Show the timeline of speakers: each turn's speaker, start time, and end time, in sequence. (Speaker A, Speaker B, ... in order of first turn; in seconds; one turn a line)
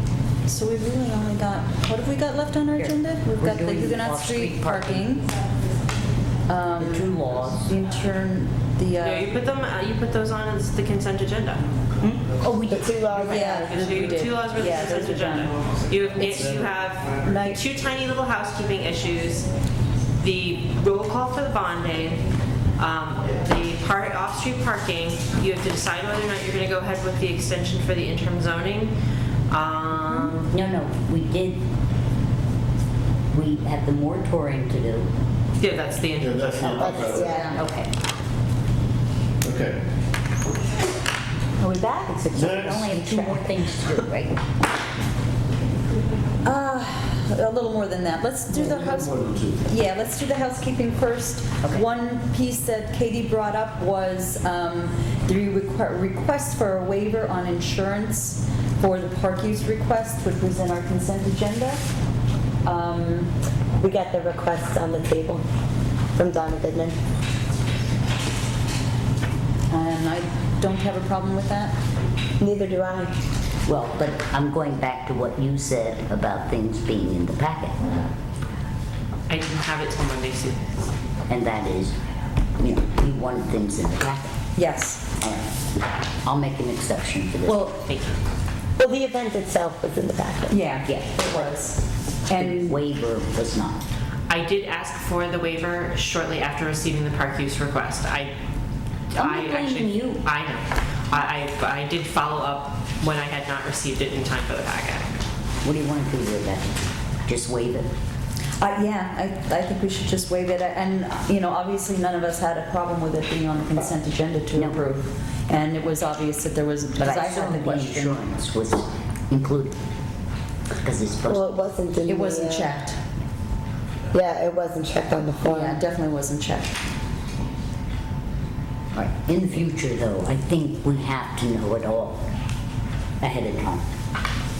Speaker A: 0.5-5.2
Speaker B: 2.8-5.2
Speaker A: 6.5-9.3
Speaker B: 6.8-7.7
Speaker C: 9.0-11.7
Speaker B: 12.0-13.6
Speaker D: 12.7-13.9
Speaker A: 13.2-15.5
Speaker C: 13.6-19.5
Speaker E: 15.6-17.5
Speaker A: 17.3-17.6
Speaker D: 17.3-17.6
Speaker C: 20.2-22.2
Speaker C: 22.8-28.9
Speaker C: 29.5-30.5
Speaker A: 30.1-30.3
Speaker B: 30.5-31.6
Speaker B: 33.3-35.1
Speaker C: 35.6-37.1
Speaker E: 36.2-37.3
Speaker B: 36.5-37.9
Speaker D: 36.8-37.6
Speaker A: 37.1-37.6
Speaker E: 39.4-39.8
Speaker A: 41.6-43.5
Speaker D: 41.9-42.6
Speaker E: 42.3-42.9
Speaker B: 42.5-44.4
Speaker A: 46.4-61.8
Speaker E: 48.5-49.6
Speaker A: 62.6-63.3
Speaker D: 63.8-65.4
Speaker D: 66.2-67.0
Speaker A: 69.7-71.7
Speaker D: 72.4-73.1
Speaker B: 73.7-78.1
Speaker C: 79.3-80.8
Speaker B: 81.3-82.0
Speaker B: 82.6-84.4
Speaker A: 84.6-85.1
Speaker B: 85.2-85.5
Speaker B: 86.2-87.8
Speaker A: 87.5-87.8
Speaker C: 87.9-88.2
Speaker D: 88.8-90.6
Speaker A: 90.5-92.8
Speaker B: 90.8-91.6
Speaker B: 92.3-93.8
Speaker C: 94.3-98.3
Speaker C: 99.1-105.1
Speaker B: 99.2-100.2
Speaker B: 105.6-107.9
Speaker A: 108.6-118.2
Speaker B: 114.5-114.8
Speaker B: 117.0-119.8
Speaker B: 120.8-121.5
Speaker D: 121.3-122.7
Speaker A: 122.0-123.0
Speaker D: 124.1-125.8
Speaker A: 125.4-126.8
Speaker B: 128.9-132.2
Speaker B: 133.2-133.8